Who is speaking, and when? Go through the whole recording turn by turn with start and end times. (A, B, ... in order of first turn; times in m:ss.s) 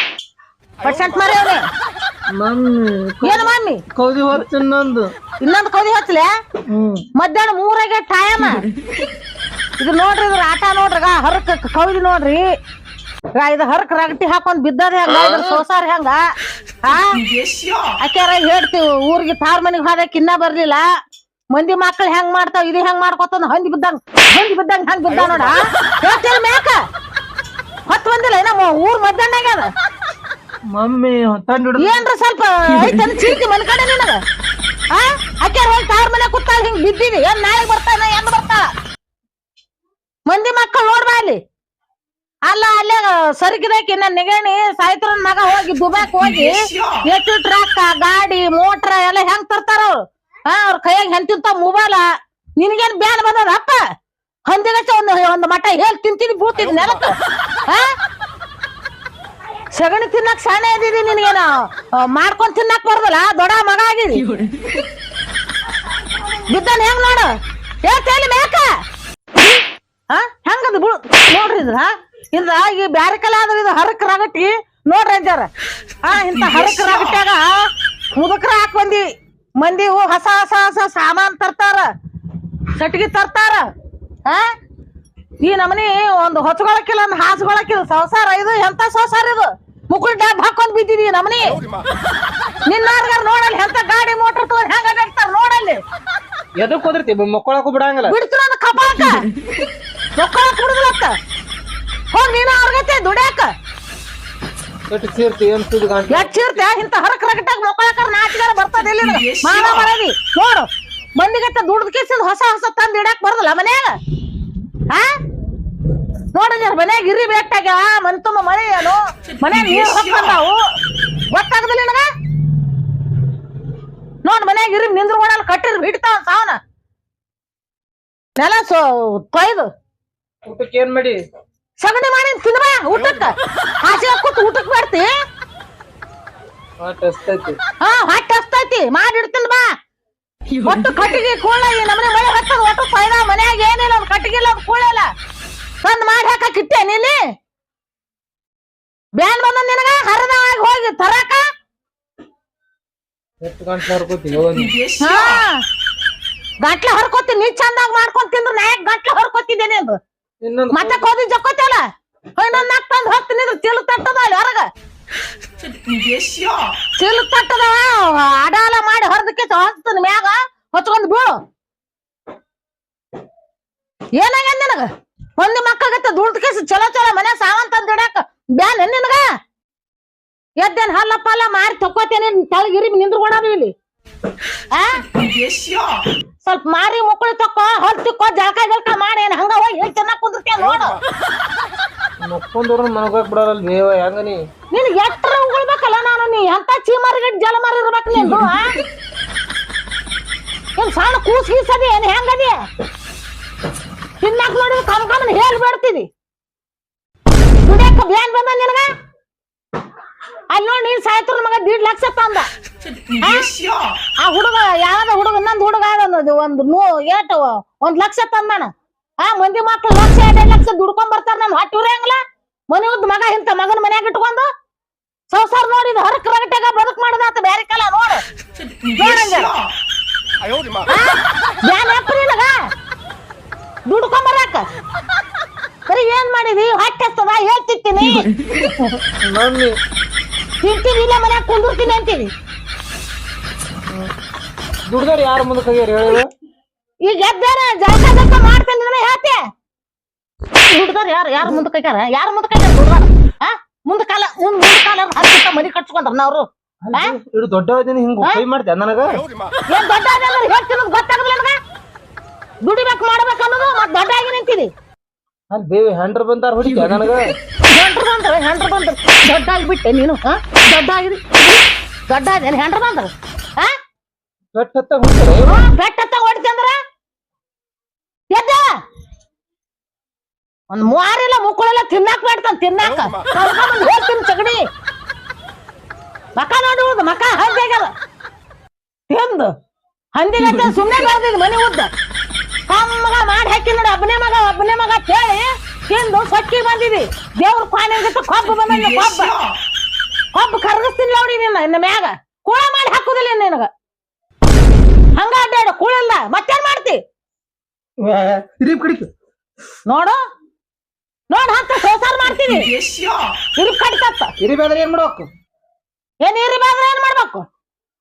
0:00.8-0:01.6 A
0:02.3-0:05.1 B
0:03.2-0:03.8 A
0:05.4-0:06.3 A
0:06.7-0:07.1 B
0:07.2-0:08.6 A
0:09.8-0:12.5 A
0:13.4-0:16.2 A
0:16.8-0:17.2 A
0:18.0-0:20.8 A
0:21.5-0:26.8 A
0:27.9-0:29.7 A
0:30.7-0:32.0 B
0:31.8-0:34.2 A
0:34.9-0:38.7 A
0:40.3-0:41.4 A
0:42.5-0:52.0 A
0:52.6-0:53.8 A
0:54.5-0:57.1 A
0:59.7-1:04.3 A
1:06.5-1:07.3 A
1:07.8-1:08.8 A
1:10.1-1:15.5 A
1:16.0-1:19.1 A
1:19.6-1:21.9 A
1:22.8-1:23.6 A
1:25.4-1:31.6 A
1:32.7-1:35.8 A
1:36.6-1:38.2 B
1:38.1-1:39.3 A
1:40.2-1:41.1 A
1:42.1-1:43.5 A
1:44.9-1:46.3 B
1:46.1-1:54.0 A
1:56.3-2:00.6 A
2:01.3-2:02.1 A
2:04.2-2:06.6 A
2:08.4-2:09.7 A
2:10.4-2:11.2 B
2:11.8-2:15.1 A
2:16.8-2:17.6 B
2:17.8-2:19.7 A
2:20.6-2:25.1 A
2:25.8-2:27.2 A
2:29.2-2:31.4 A
2:33.4-2:34.8 B
2:35.0-2:35.6 A
2:36.6-2:40.0 A
2:40.4-2:41.0 B
2:40.7-2:41.8 A
2:42.4-2:44.7 A
2:47.0-2:51.3 A
2:54.2-2:59.3 A
3:00.6-3:03.7 A
3:04.7-3:05.0 A
3:06.4-3:11.0 A
3:12.2-3:14.4 B
3:14.7-3:18.8 A
3:20.8-3:22.6 A
3:24.2-3:26.1 A
3:27.6-3:28.9 A
3:30.5-3:32.5 A
3:33.2-3:33.5 A
3:34.2-3:38.7 A
3:39.2-3:42.2 A
3:42.7-3:44.5 A
3:45.3-3:48.2 A
3:49.0-3:49.6 A
3:50.9-3:52.6 A
3:53.9-3:54.6 A
3:55.9-3:58.3 A
3:58.6-3:59.8 B
4:00.6-4:02.3 A
4:04.9-4:06.3 B
4:07.0-4:09.4 A
4:10.7-4:17.1 A
4:16.8-4:19.2 B
4:19.7-4:21.6 A
4:22.6-4:24.7 A
4:25.5-4:27.2 B
4:27.7-4:33.7 A
4:34.5-4:35.7 B
4:35.4-4:36.8 A
4:38.3-4:38.7 A
4:40.7-4:44.6 A
4:46.4-4:47.9 A
4:49.1-4:49.5 A
4:50.2-4:51.9 A
4:52.7-4:59.4 A
5:00.3-5:03.7 A
5:05.2-5:07.0 A
5:08.0-5:09.1 B
5:09.9-5:10.2 A
5:11.3-5:12.7 A
5:13.6-5:14.3 A
5:14.4-5:15.3 B
5:16.2-5:17.4 A